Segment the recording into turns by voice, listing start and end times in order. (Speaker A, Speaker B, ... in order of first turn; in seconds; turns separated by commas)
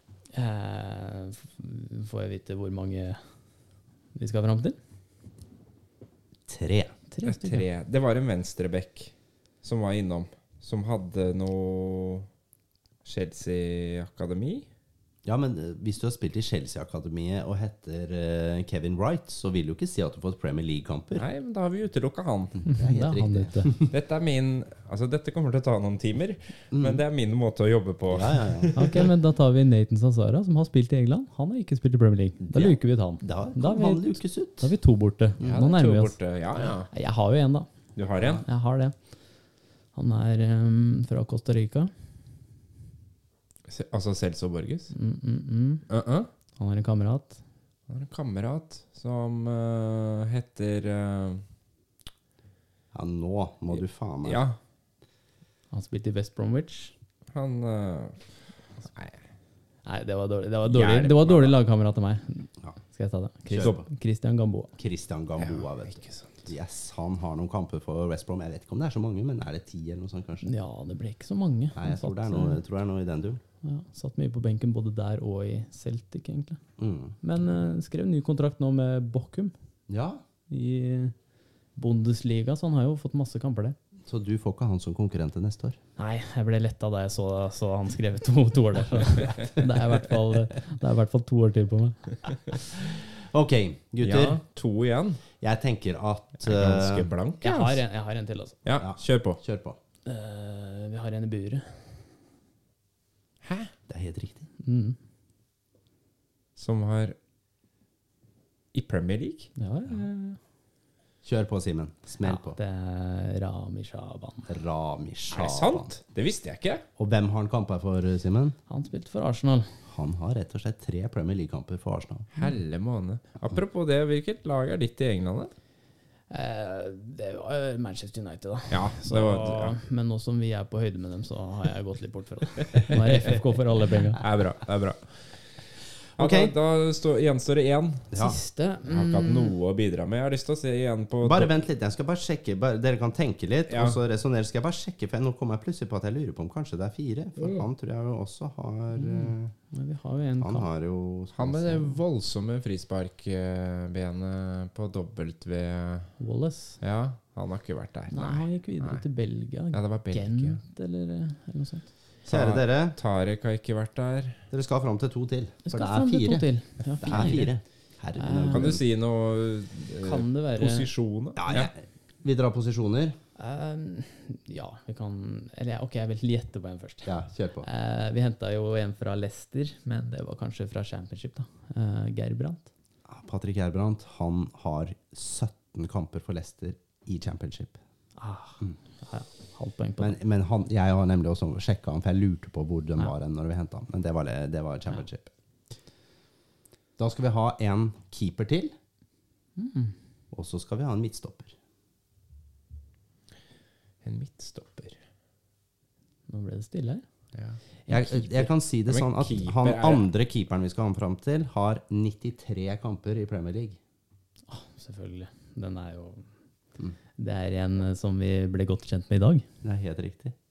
Speaker A: 0.3-3.2, Speaker A: 4.1-4.8, Speaker B: 6.5-6.9, Speaker A: 7.1-7.6, Speaker C: 7.2-9.1, Speaker C: 9.6-12.3, Speaker C: 13.0-14.7, Speaker B: 15.2-21.2, Speaker C: 21.1-22.6, Speaker B: 22.6-23.9, Speaker A: 22.7-23.7, Speaker C: 23.9-29.0, Speaker B: 26.7-27.0, Speaker B: 28.1-28.8, Speaker A: 28.7-36.2, Speaker B: 32.4-34.7, Speaker C: 35.4-36.9, Speaker A: 36.9-37.7, Speaker C: 38.0-38.4, Speaker A: 38.2-38.9, Speaker A: 39.9-41.9, Speaker C: 43.7-44.9, Speaker A: 44.9-45.8, Speaker C: 45.9-46.3, Speaker A: 46.5-47.4, Speaker C: 47.9-51.4, Speaker B: 52.9-54.4, Speaker C: 54.2-54.6, Speaker A: 55.7-56.9, Speaker C: 57.3-58.3, Speaker C: 58.9-59.2, Speaker A: 59.9-64.7, Speaker C: 60.7-61.5, Speaker B: 63.5-63.8, Speaker B: 64.8-70.5, Speaker C: 65.4-66.3, Speaker A: 70.4-72.6, Speaker B: 71.7-73.4, Speaker A: 73.6-76.6, Speaker B: 76.8-77.2, Speaker A: 77.2-79.5, Speaker B: 79.9-80.2, Speaker A: 80.5-81.1, Speaker A: 81.8-83.8, Speaker B: 84.1-85.8, Speaker A: 86.0-92.5, Speaker B: 92.7-94.4, Speaker C: 94.0-95.2, Speaker B: 95.4-97.1, Speaker C: 96.4-97.8, Speaker A: 97.4-98.6, Speaker C: 98.6-99.4, Speaker B: 98.8-99.8, Speaker A: 100.0-102.0, Speaker C: 103.4-103.7, Speaker B: 103.9-104.5, Speaker A: 104.6-105.0, Speaker C: 106.6-107.2, Speaker C: 108.7-109.5, Speaker A: 109.6-110.4, Speaker B: 111.2-112.6, Speaker A: 112.2-114.5, Speaker B: 114.5-115.9, Speaker C: 115.3-116.8, Speaker B: 117.0-118.5, Speaker A: 118.7-119.8, Speaker B: 119.9-122.3, Speaker C: 122.3-125.5, Speaker A: 126.3-134.2, Speaker C: 128.7-129.7, Speaker C: 132.7-133.3, Speaker C: 134.2-135.3, Speaker C: 136.2-138.1, Speaker B: 136.2-136.5, Speaker A: 138.1-139.5, Speaker C: 138.9-141.5, Speaker B: 141.2-149.5, Speaker C: 143.7-144.0, Speaker C: 147.4-147.7, Speaker A: 148.9-150.6, Speaker B: 150.4-152.0, Speaker C: 151.3-156.1, Speaker A: 156.2-156.8, Speaker C: 156.8-159.0, Speaker A: 158.1-161.9, Speaker C: 159.7-160.6, Speaker B: 162.3-162.9, Speaker C: 162.3-164.4, Speaker B: 164.5-166.4, Speaker A: 165.7-167.5, Speaker B: 167.0-168.8, Speaker C: 167.0-167.4, Speaker A: 168.2-168.8, Speaker C: 168.5-171.7, Speaker A: 169.9-170.9, Speaker B: 171.4-173.2, Speaker A: 173.4-182.7, Speaker B: 177.1-177.7, Speaker B: 183.1-187.8, Speaker A: 188.2-190.2, Speaker B: 190.0-195.3, Speaker B: 197.0-198.7, Speaker A: 199.6-199.9, Speaker B: 200.3-201.5, Speaker C: 204.0-205.0, Speaker A: 206.3-207.0, Speaker C: 207.3-207.6, Speaker A: 207.9-208.2, Speaker B: 207.9-213.8, Speaker C: 208.9-210.0, Speaker A: 214.5-216.3, Speaker A: 217.2-219.4, Speaker B: 219.6-220.3